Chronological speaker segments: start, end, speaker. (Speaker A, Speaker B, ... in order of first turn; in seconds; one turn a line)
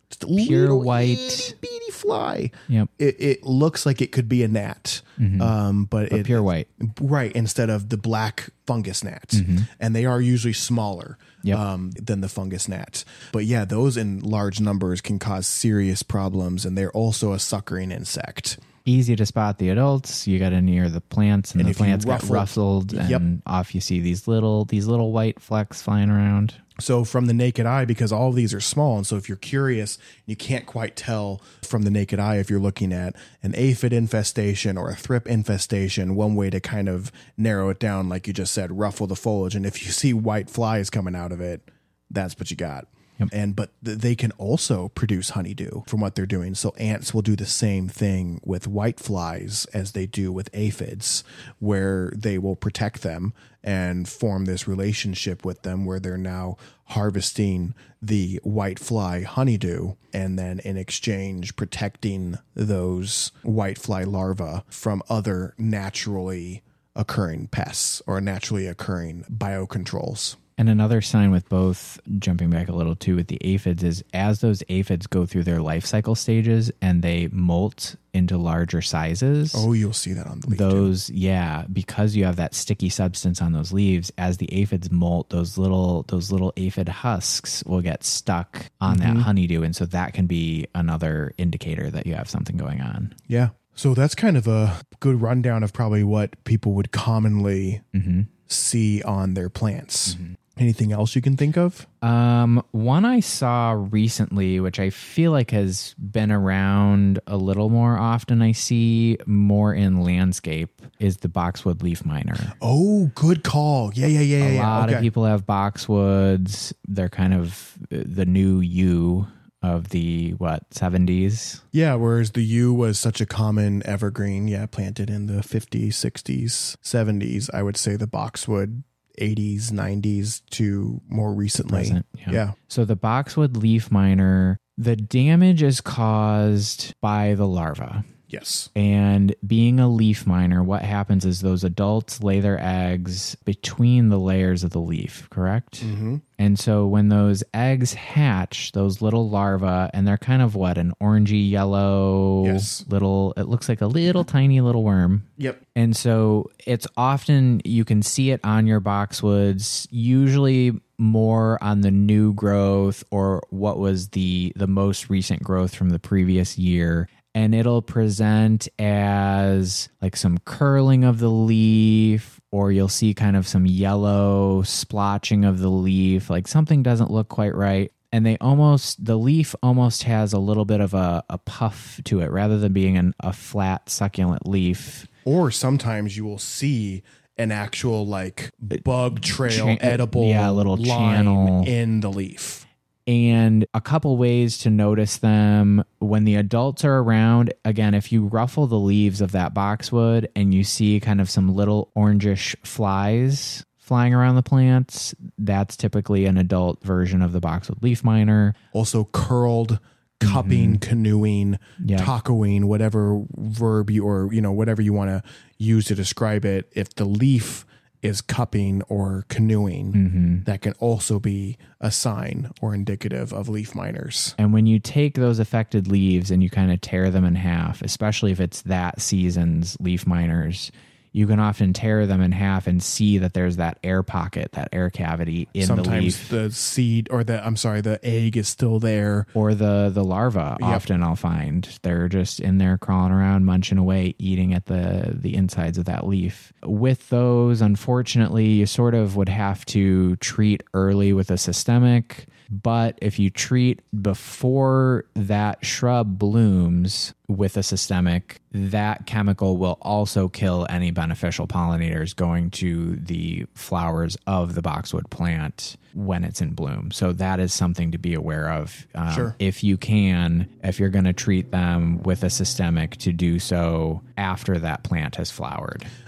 Speaker A: 0.1-18.6
Speaker B: 0.4-1.5
Speaker B: 5.2-5.5
Speaker B: 6.1-6.7
Speaker B: 9.3-9.7
Speaker B: 18.9-26.6
Speaker A: 21.6-23.2
Speaker A: 26.8-70.4
Speaker B: 70.6-79.7
Speaker A: 79.5-80.9
Speaker B: 80.5-93.2
Speaker A: 88.9-89.3
Speaker A: 93.3-97.8
Speaker B: 97.9-98.3
Speaker A: 98.5-101.9
Speaker B: 100.1-100.4
Speaker B: 102.0-112.5
Speaker A: 112.6-115.1
Speaker B: 114.4-121.6
Speaker A: 121.7-132.6
Speaker B: 131.6-138.1
Speaker A: 138.3-138.7
Speaker B: 138.8-185.1
Speaker A: 145.8-146.2
Speaker A: 152.4-152.8
Speaker A: 185.2-192.7
Speaker B: 188.7-191.7
Speaker B: 193.1-208.6
Speaker A: 208.7-224.4
Speaker B: 210.2-210.8
Speaker B: 211.8-212.1
Speaker B: 219.9-220.4
Speaker B: 224.4-236.3
Speaker A: 235.6-239.3
Speaker B: 239.3-275.9
Speaker A: 240.6-240.8
Speaker A: 269.1-269.4